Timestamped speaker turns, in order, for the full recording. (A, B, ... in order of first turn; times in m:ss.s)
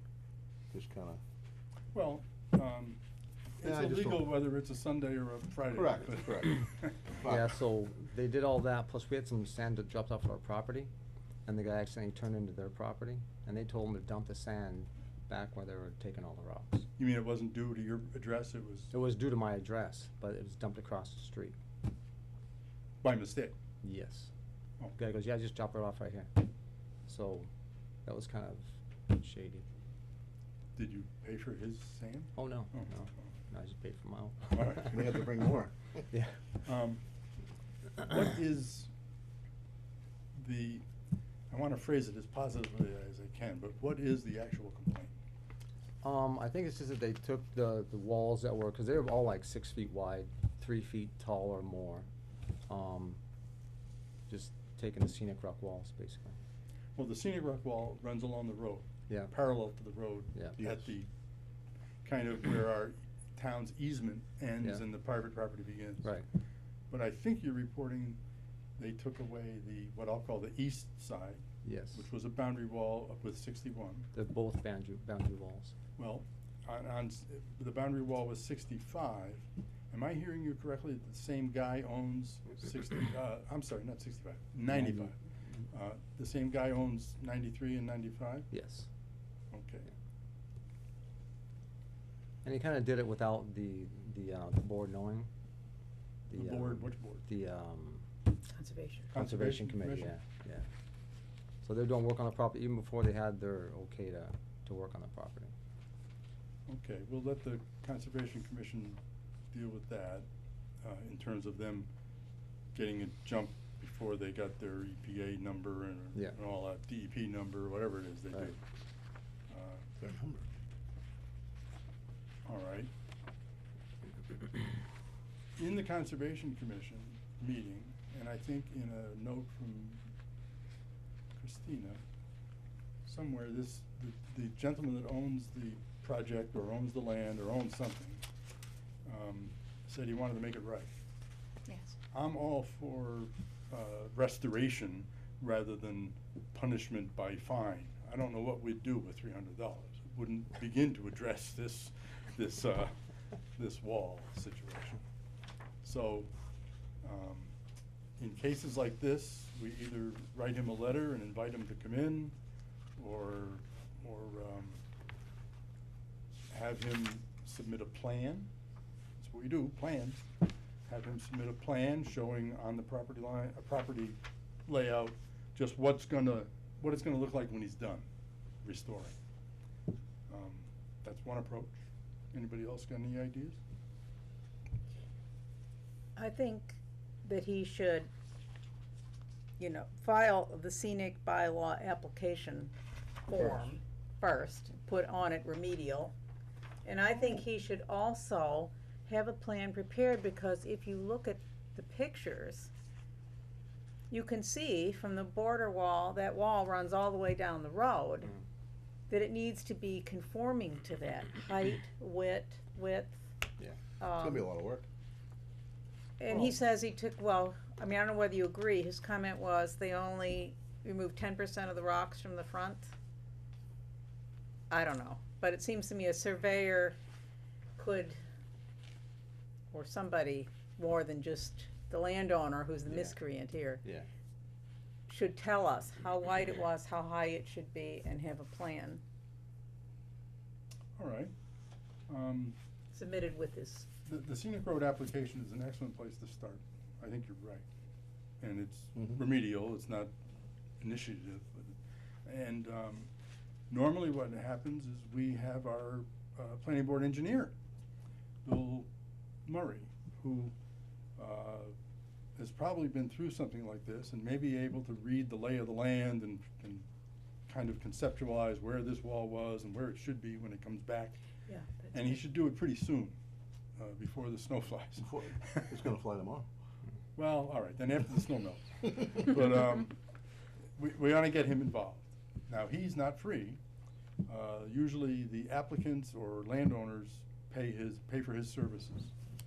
0:00.7-0:01.2 A
0:01.9-0:03.0 B
0:03.6-0:06.9 B
0:03.6-0:04.3 A
0:05.7-0:06.6 A
0:07.2-0:07.4 A
0:07.2-0:10.9 C
0:11.4-0:16.9 C
0:17.0-0:18.9 B
0:18.9-0:21.6 C
0:23.0-0:23.6 B
0:23.8-0:24.3 C
0:25.0-0:26.3 C
0:27.1-0:27.5 C
0:28.0-0:29.7 C
0:30.8-0:32.9 B
0:32.3-0:35.1 C
0:34.5-0:34.9 B
0:34.8-0:36.0 A
0:36.1-0:36.4 C
0:36.6-0:37.0 B
0:38.0-0:38.9 B
0:40.3-0:40.8 B
0:41.5-0:45.1 B
0:46.0-0:52.1 C
0:52.7-0:53.2 C
0:54.3-0:56.4 C
0:57.0-1:01.1 B
0:59.1-0:59.3 C
1:00.6-1:00.9 A
1:02.0-1:06.1 B
1:06.9-1:08.2 B
1:08.8-1:11.4 B
1:11.6-1:12.1 C
1:11.9-1:14.1 B
1:14.1-1:15.7 C
1:16.0-1:25.2 B
1:24.7-1:25.1 C
1:25.7-1:28.5 B
1:28.5-1:28.9 C
1:29.5-1:29.9 B
1:32.4-1:35.3 C
1:36.3-1:37.2 B
1:36.3-1:38.0 C
1:38.5-1:39.1 D
1:39.1-1:40.1 B
1:39.1-1:40.7 C
1:41.6-1:45.5 C
1:46.7-1:49.0 B
1:49.5-1:50.2 B
1:50.8-1:51.9 B
1:52.7-1:58.6 B
1:59.5-1:59.9 B
2:00.0-2:00.5 A
2:02.4-2:02.9 B
2:05.6-2:10.0 B
2:11.3-2:12.0 B
2:13.0-2:18.2 B
2:19.0-2:20.9 B
2:22.1-2:32.9 B
2:33.6-2:35.0 B
2:35.8-2:36.3 B
2:37.0-2:37.5 B
2:38.2-2:42.4 B
2:43.0-2:44.8 B
2:46.5-2:48.5 B
2:49.2-2:50.3 B
2:50.8-2:58.1 B
2:58.6-2:59.1 B
3:00.3-3:03.6 B
3:06.2-3:08.1 D
3:09.6-3:12.7 D
3:13.3-3:16.1 D
3:16.8-3:22.7 D
3:24.1-3:28.3 D
3:29.1-3:33.3 D
3:34.0-3:34.4 D
3:34.0-3:34.9 A
3:36.2-3:42.9 D
3:44.7-3:47.0 D
3:47.8-3:48.2 D
3:49.7-3:53.8 D
3:52.8-3:53.2 C
3:53.8-3:54.1 C
3:55.1-3:59.0 D
4:01.0-4:01.3 B
4:02.1-4:02.6 B
4:02.9-4:03.9 D
4:04.0-4:07.6 B
4:08.4-4:10.1 B
4:10.8-4:13.1 B
4:13.7-4:17.6 B
4:18.4-4:18.9 B
4:19.4-4:20.5 B
4:21.2-4:21.7 B
4:22.4-4:26.8 B
4:27.5-4:31.2 B
4:31.5-4:32.2 D
4:31.9-4:33.2 B
4:33.8-4:35.7 B
4:35.0-4:36.5 A
4:37.2-4:40.0 B
4:40.8-4:43.6 B
4:44.2-4:49.1 B